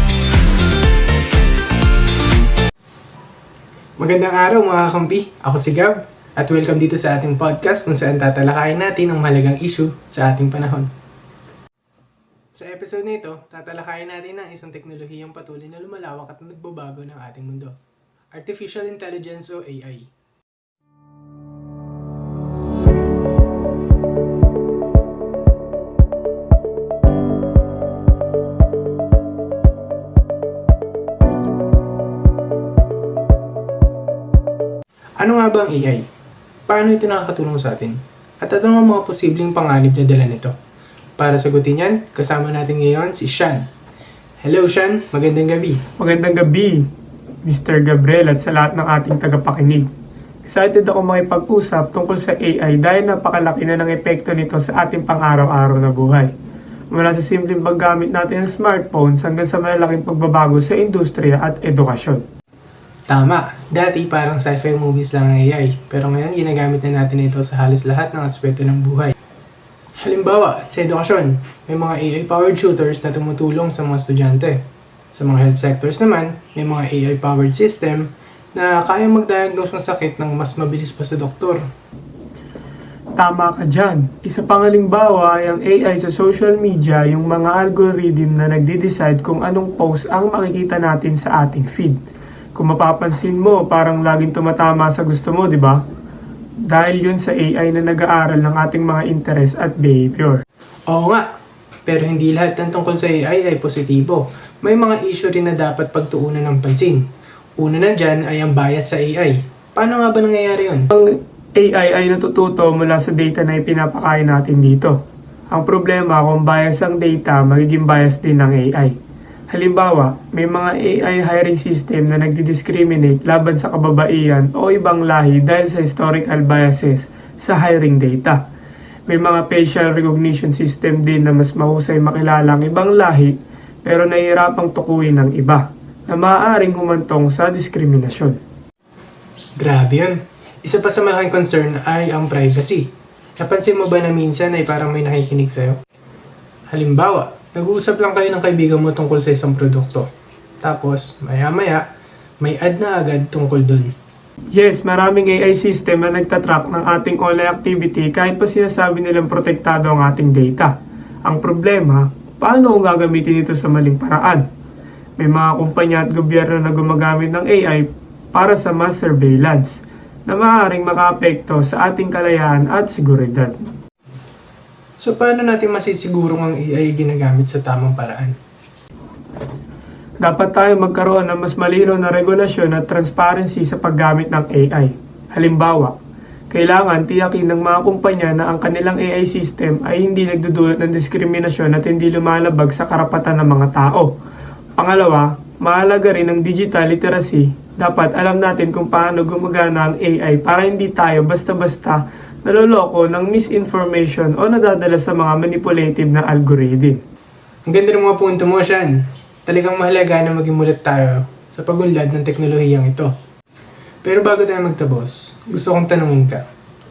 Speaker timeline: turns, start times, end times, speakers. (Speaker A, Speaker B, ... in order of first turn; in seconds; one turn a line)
Speaker A: 4.0-10.9
Speaker A: 12.6-17.8
Speaker A: 18.3-20.1
Speaker A: 35.2-36.1
Speaker A: 36.7-40.5
Speaker A: 41.2-43.7
Speaker A: 44.4-45.8
Speaker B: 46.0-46.9
Speaker B: 47.4-49.9
Speaker B: 50.5-56.3
Speaker B: 56.9-62.2
Speaker A: 63.1-69.2
Speaker A: 70.0-81.7
Speaker B: 83.2-92.0
Speaker B: 92.6-95.8
Speaker B: 96.7-100.4
Speaker A: 100.9-101.3
Speaker A: 101.9-107.1
Speaker A: 107.6-110.9
Speaker B: 110.9-115.0
Speaker B: 115.5-119.0
Speaker B: 119.5-128.4
Speaker B: 129.1-138.4
Speaker A: 139.6-145.8
Speaker A: 146.7-150.1
Speaker A: 150.6-151.8
Speaker A: 152.4-153.9
Speaker B: 154.6-160.7
Speaker B: 161.3-164.4
Speaker B: 165.2-173.6
Speaker A: 175.0-178.3
Speaker B: 180.2-185.9
Speaker B: 186.5-194.1
Speaker B: 194.8-207.0
Speaker A: 207.7-213.1
Speaker A: 214.0-216.4